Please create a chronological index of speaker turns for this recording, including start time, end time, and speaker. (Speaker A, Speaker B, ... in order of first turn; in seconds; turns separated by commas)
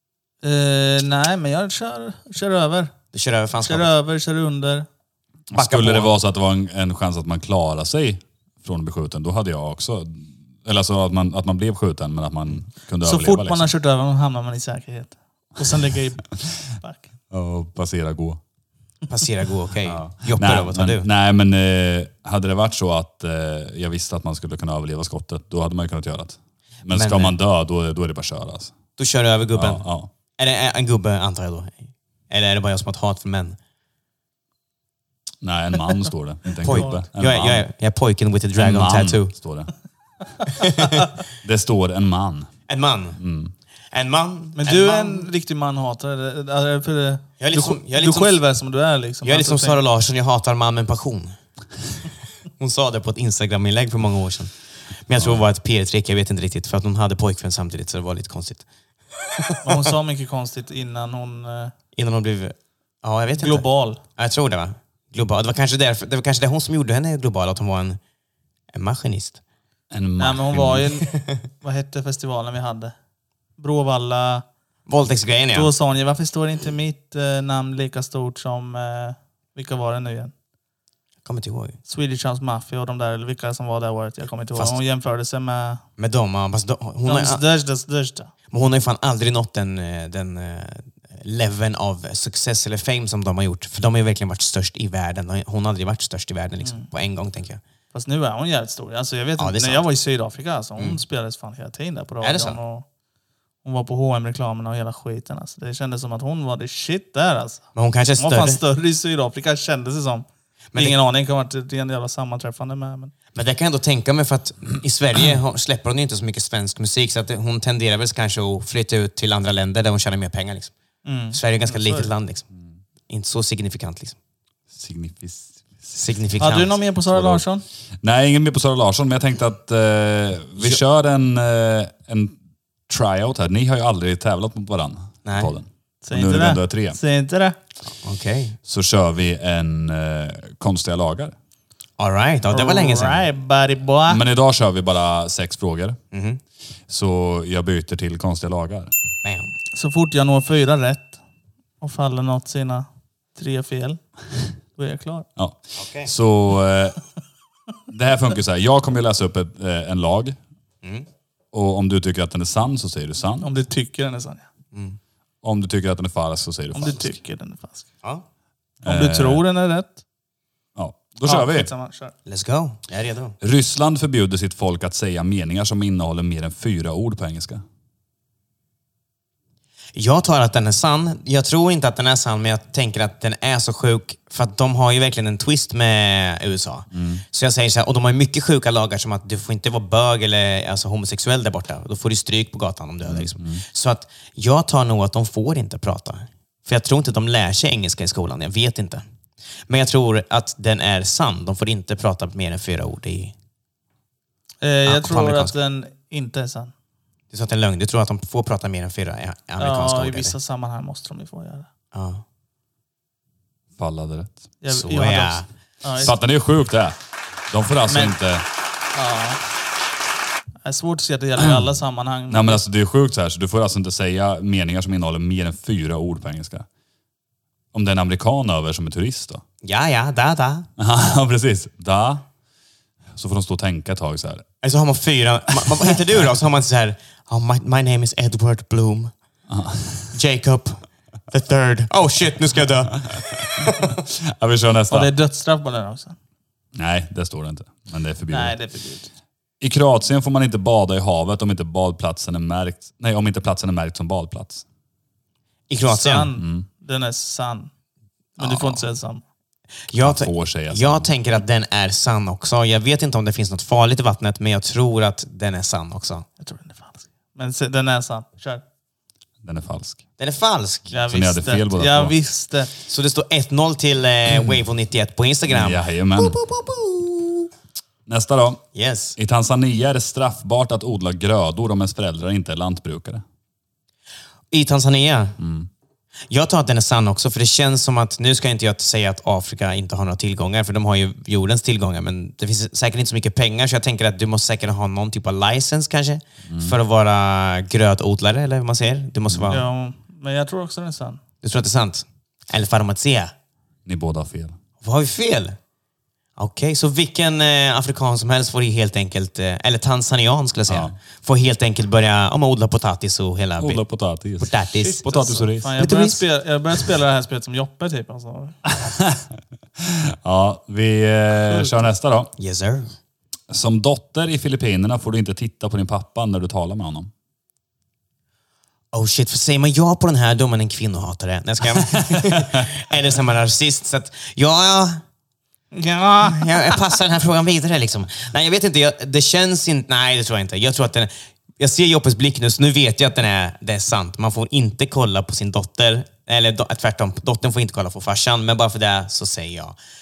Speaker A: 0.4-2.9, Speaker B: 3.1-3.9, Speaker A: 3.6-4.9, Speaker C: 5.5-13.7, Speaker B: 5.5-6.1, Speaker A: 13.0-17.1, Speaker C: 17.3-18.4, Speaker B: 19.1-21.1, Speaker C: 19.9-28.7, Speaker B: 26.9-27.3, Speaker B: 29.0-33.6, Speaker C: 29.5-30.1, Speaker C: 35.4-37.6, Speaker B: 36.6-39.3, Speaker C: 38.6-39.7, Speaker B: 40.5-41.1, Speaker C: 41.4-42.5, Speaker B: 42.7-43.2, Speaker C: 43.2-43.5, Speaker B: 43.9-45.3, Speaker A: 44.5-49.8, Speaker B: 47.4-48.4, Speaker B: 49.2-51.4, Speaker B: 52.6-54.5, Speaker B: 55.0-58.6, Speaker C: 55.2-55.4, Speaker B: 59.3-59.6, Speaker A: 59.6-61.7, Speaker B: 61.9-63.6, Speaker A: 63.4-64.0, Speaker B: 64.2-68.0, Speaker B: 68.7-69.4, Speaker C: 69.9-70.9, Speaker A: 70.2-72.9, Speaker A: 73.6-74.4, Speaker B: 74.9-75.7, Speaker A: 75.5-80.3, Speaker B: 81.2-81.8, Speaker A: 81.9-85.8, Speaker B: 86.0-87.4, Speaker A: 87.0-88.3, Speaker B: 88.5-97.6, Speaker A: 97.9-102.8, Speaker B: 99.4-99.8, Speaker B: 102.2-102.6, Speaker A: 103.6-107.7, Speaker B: 107.7-108.6, Speaker A: 108.2-113.1, Speaker B: 113.3-120.7, Speaker A: 121.0-122.1, Speaker B: 121.3-122.4, Speaker B: 123.1-124.2, Speaker C: 124.7-125.9, Speaker B: 125.9-126.8, Speaker A: 126.4-127.6, Speaker C: 127.1-127.4, Speaker C: 128.0-132.3, Speaker C: 132.9-137.0, Speaker B: 135.2-135.5, Speaker A: 136.0-137.6, Speaker B: 137.8-138.6, Speaker C: 138.6-141.3, Speaker B: 142.0-143.2, Speaker A: 142.5-144.2, Speaker C: 144.1-146.0, Speaker B: 146.1-146.4, Speaker C: 146.9-148.9, Speaker B: 149.2-149.5, Speaker A: 149.7-151.2, Speaker A: 151.8-154.0, Speaker A: 154.8-155.3, Speaker C: 155.4-157.0, Speaker B: 155.8-156.1, Speaker C: 157.9-160.4, Speaker C: 161.5-163.5, Speaker A: 163.4-164.5, Speaker B: 164.7-165.0, Speaker C: 165.4-167.2, Speaker A: 166.7-167.9, Speaker C: 168.8-169.4, Speaker A: 168.8-169.9, Speaker C: 170.8-171.7, Speaker A: 171.2-172.1, Speaker B: 172.2-173.4, Speaker C: 173.4-177.6, Speaker B: 179.9-199.0, Speaker C: 186.9-187.2, Speaker C: 193.1-193.6, Speaker B: 199.7-203.3, Speaker A: 204.6-206.7, Speaker B: 204.8-205.5, Speaker B: 207.3-210.3, Speaker A: 209.6-211.7, Speaker B: 211.9-212.2, Speaker C: 213.8-214.4, Speaker A: 214.6-216.2, Speaker B: 214.7-215.5, Speaker C: 216.0-216.9, Speaker C: 217.5-218.4, Speaker A: 217.9-218.1, Speaker A: 218.9-219.4, Speaker A: 220.6-222.6, Speaker C: 221.4-221.7, Speaker C: 222.3-226.7, Speaker C: 227.7-229.4, Speaker B: 229.6-230.7, Speaker C: 230.8-232.2, Speaker C: 233.1-234.4, Speaker B: 234.6-239.1, Speaker C: 239.5-240.1, Speaker B: 240.1-243.2, Speaker C: 243.1-245.1, Speaker A: 244.9-246.2, Speaker C: 246.7-248.6, Speaker A: 248.3-249.1, Speaker C: 249.6-254.6, Speaker B: 255.7-256.3, Speaker A: 255.9-257.7, Speaker C: 256.4-256.6, Speaker A: 258.4-259.2, Speaker B: 258.4-258.8, Speaker B: 259.9-266.2, Speaker C: 260.0-261.1, Speaker A: 266.4-268.6, Speaker C: 269.4-270.0, Speaker B: 270.2-270.9, Speaker A: 270.9-272.7, Speaker C: 271.1-272.1, Speaker B: 272.9-277.4, Speaker C: 275.5-276.4, Speaker C: 278.1-278.6, Speaker B: 278.7-279.1, Speaker C: 279.1-283.2, Speaker B: 284.5-285.4, Speaker C: 285.4-285.7, Speaker B: 286.3-299.6, Speaker C: 296.5-296.7, Speaker C: 299.3-299.6, Speaker A: 299.5-301.2, Speaker B: 301.4-303.3, Speaker C: 303.8-304.5, Speaker B: 304.8-305.6, Speaker B: 306.4-313.8, Speaker C: 310.7-310.9, Speaker C: 313.6-315.8, Speaker B: 314.4-316.2, Speaker A: 314.9-318.6, Speaker C: 318.8-319.2, Speaker C: 319.8-322.3, Speaker B: 322.4-322.9, Speaker C: 323.5-327.1, Speaker B: 328.9-335.0, Speaker C: 332.1-332.4, Speaker A: 335.7-336.8, Speaker B: 336.2-349.8